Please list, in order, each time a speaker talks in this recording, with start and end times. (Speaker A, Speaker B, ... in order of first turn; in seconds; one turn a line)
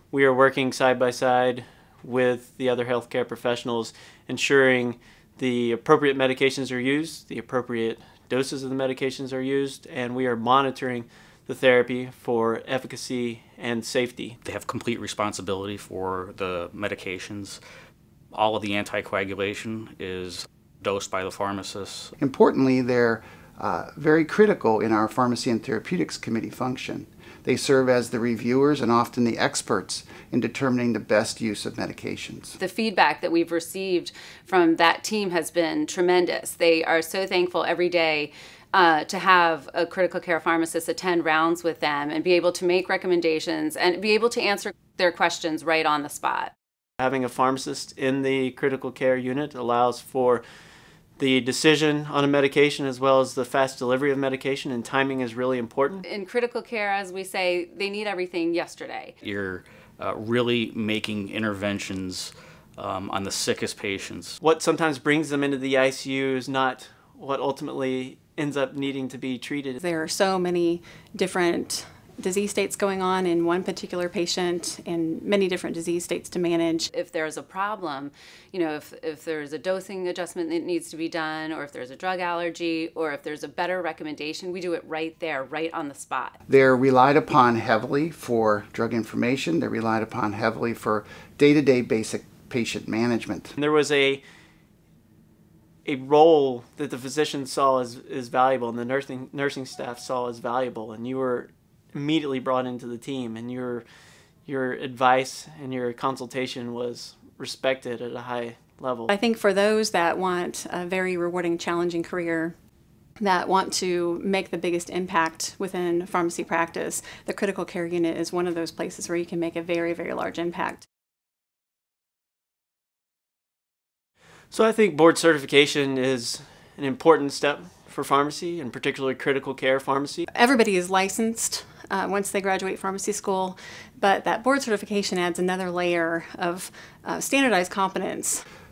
Speaker A: 0.1-14.4
Speaker B: 14.4-17.6
Speaker B: 18.3-22.1
Speaker C: 22.2-32.6
Speaker D: 32.6-46.5
Speaker A: 47.0-50.4
Speaker A: 51.2-56.0
Speaker D: 56.0-59.1
Speaker B: 59.2-64.4
Speaker A: 64.4-69.8
Speaker E: 69.8-76.9
Speaker D: 76.9-86.4
Speaker C: 86.5-93.5
Speaker A: 93.5-94.2
Speaker A: 95.8-103.8
Speaker A: 104.5-109.1
Speaker E: 109.1-112.5
Speaker E: 113.2-120.8
Speaker A: 124.5-130.2
Speaker E: 130.3-138.4